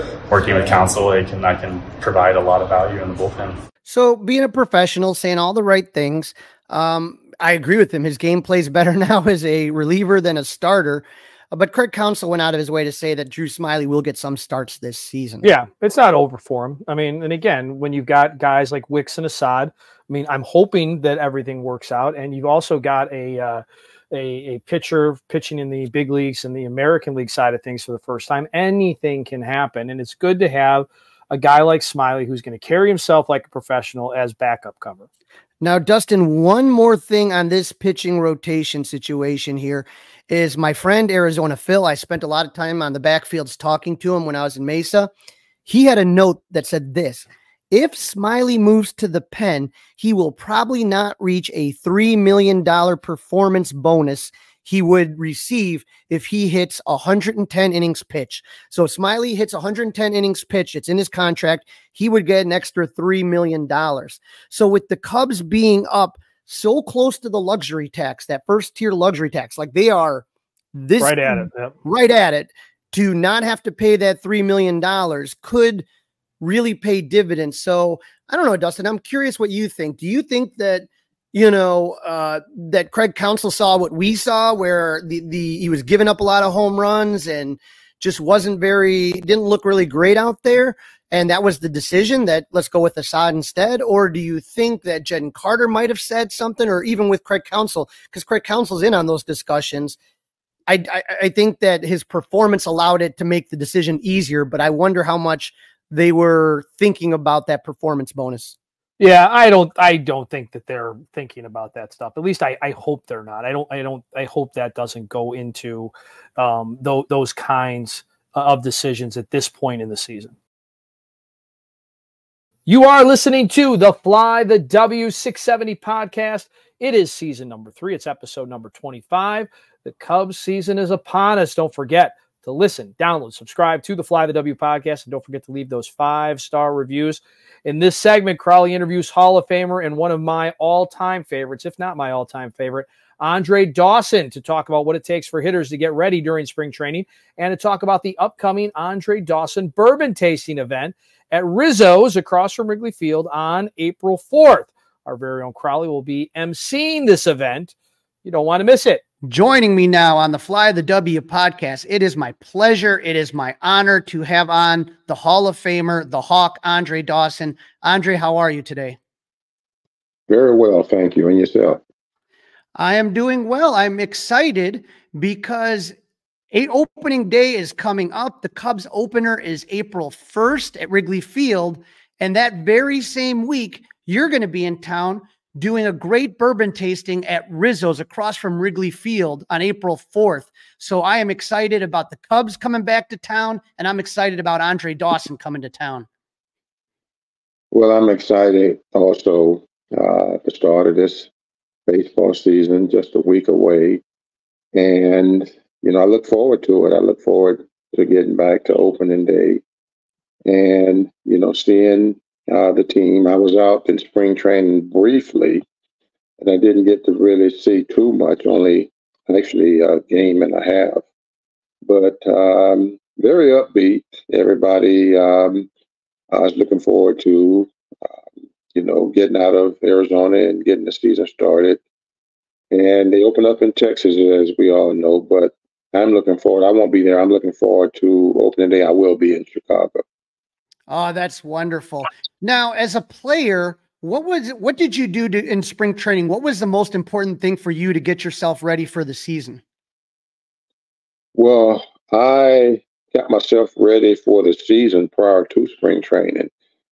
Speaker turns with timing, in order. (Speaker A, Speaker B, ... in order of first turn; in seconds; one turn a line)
Speaker A: 0.3-3.6
Speaker B: 3.9-15.4
Speaker C: 15.4-35.1
Speaker B: 35.6-45.1
Speaker B: 45.6-75.8
Speaker C: 71.0-71.7
Speaker B: 76.4-100.0
Speaker B: 100.7-108.5
Speaker C: 109.0-120.3
Speaker C: 122.7-159.0
Speaker B: 159.2-169.0
Speaker D: 170.3-171.8
Speaker B: 172.8-175.9
Speaker B: 176.5-196.1
Speaker D: 197.7-201.3
Speaker D: 201.9-204.0
Speaker D: 204.7-209.6
Speaker D: 210.5-215.6
Speaker D: 216.4-221.0
Speaker D: 221.8-225.7
Speaker D: 226.3-227.7
Speaker D: 228.7-231.8
Speaker D: 232.7-240.0
Speaker B: 240.9-249.6
Speaker D: 251.3-256.5